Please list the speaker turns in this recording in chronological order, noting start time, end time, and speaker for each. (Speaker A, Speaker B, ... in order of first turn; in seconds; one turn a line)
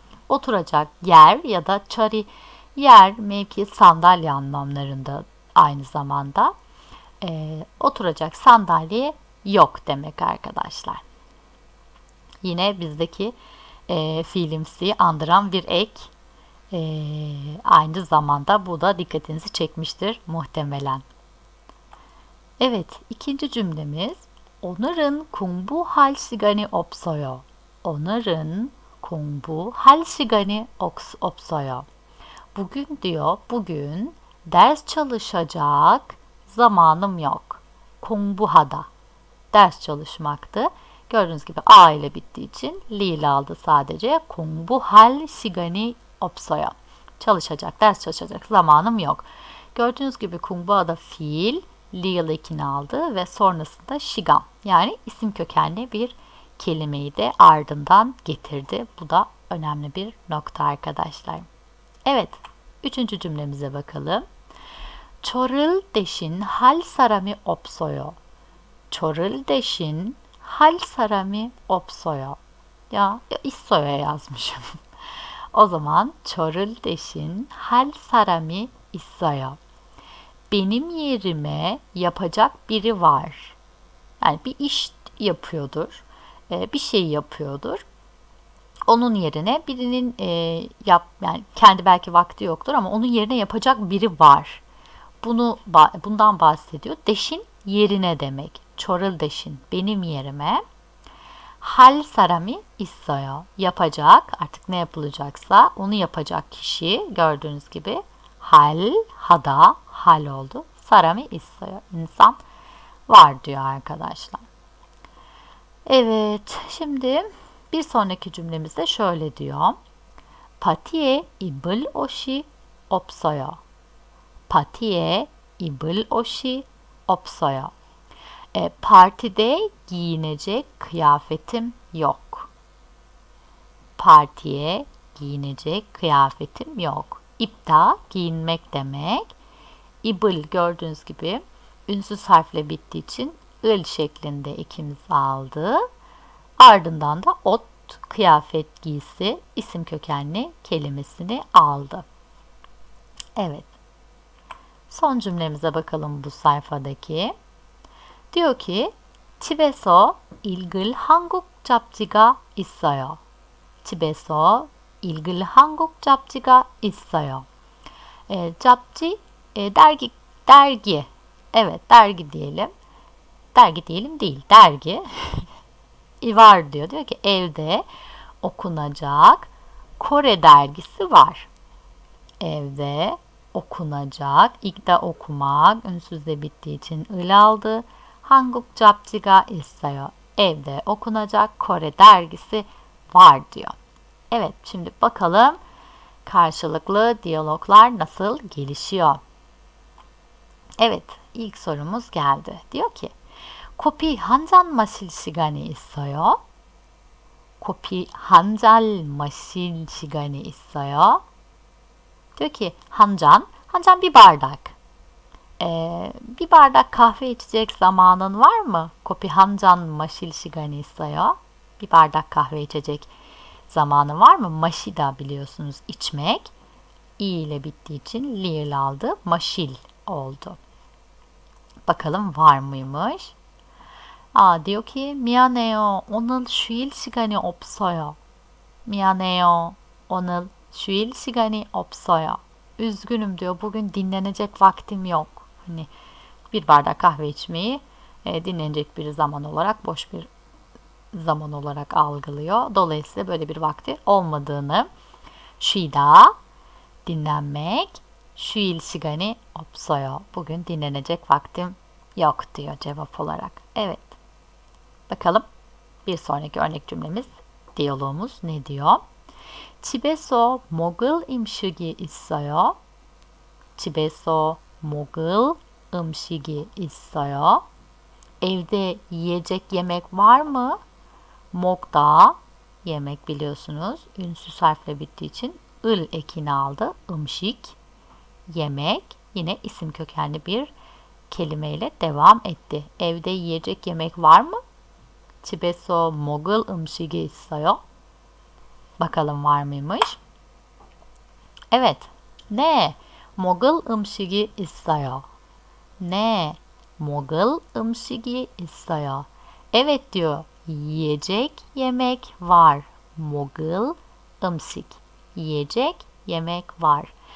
Speaker A: 0.3-6.5
Speaker A: 7.2-11.0
Speaker A: 12.4-13.4
Speaker A: 13.9-16.1
Speaker A: 16.7-21.0
Speaker A: 22.6-31.9
Speaker A: 32.5-38.9
Speaker A: 39.5-61.5
Speaker A: 62.0-64.2
Speaker A: 65.2-68.2
Speaker A: 68.9-72.4
Speaker A: 72.9-74.8
Speaker A: 75.5-79.6
Speaker A: 80.5-83.6
Speaker A: 84.2-87.8
Speaker A: 88.9-94.6
Speaker A: 95.2-100.6
Speaker A: 101.6-112.4
Speaker A: 113.1-114.5
Speaker A: 115.8-119.8
Speaker A: 120.6-123.6
Speaker A: 124.5-127.7
Speaker A: 128.5-132.5
Speaker A: 134.0-139.3
Speaker A: 140.0-145.8
Speaker A: 146.6-152.1
Speaker A: 153.4-153.7
Speaker A: 154.9-157.3
Speaker A: 158.3-163.2
Speaker A: 163.8-167.4
Speaker A: 168.3-172.7
Speaker A: 173.5-175.5
Speaker A: 176.2-177.8
Speaker A: 178.4-181.5
Speaker A: 182.4-193.7
Speaker A: 194.3-195.6
Speaker A: 196.2-199.2
Speaker A: 200.8-203.1
Speaker A: 203.8-206.4
Speaker A: 207.6-211.2
Speaker A: 212.3-214.8
Speaker A: 215.6-223.1
Speaker A: 223.7-226.5
Speaker A: 227.2-230.6
Speaker A: 231.9-233.3
Speaker A: 234.3-238.2
Speaker A: 238.8-245.9
Speaker A: 246.5-250.3
Speaker A: 251.1-254.9
Speaker A: 255.6-256.3
Speaker A: 257.1-264.2
Speaker A: 265.1-265.4
Speaker A: 266.0-269.0
Speaker A: 269.8-272.8
Speaker A: 273.8-277.6
Speaker A: 278.4-280.8
Speaker A: 281.5-287.8
Speaker A: 288.5-290.7
Speaker A: 291.3-294.6
Speaker A: 295.4-297.8
Speaker A: 299.0-300.2
Speaker A: 301.7-305.2
Speaker A: 306.0-317.1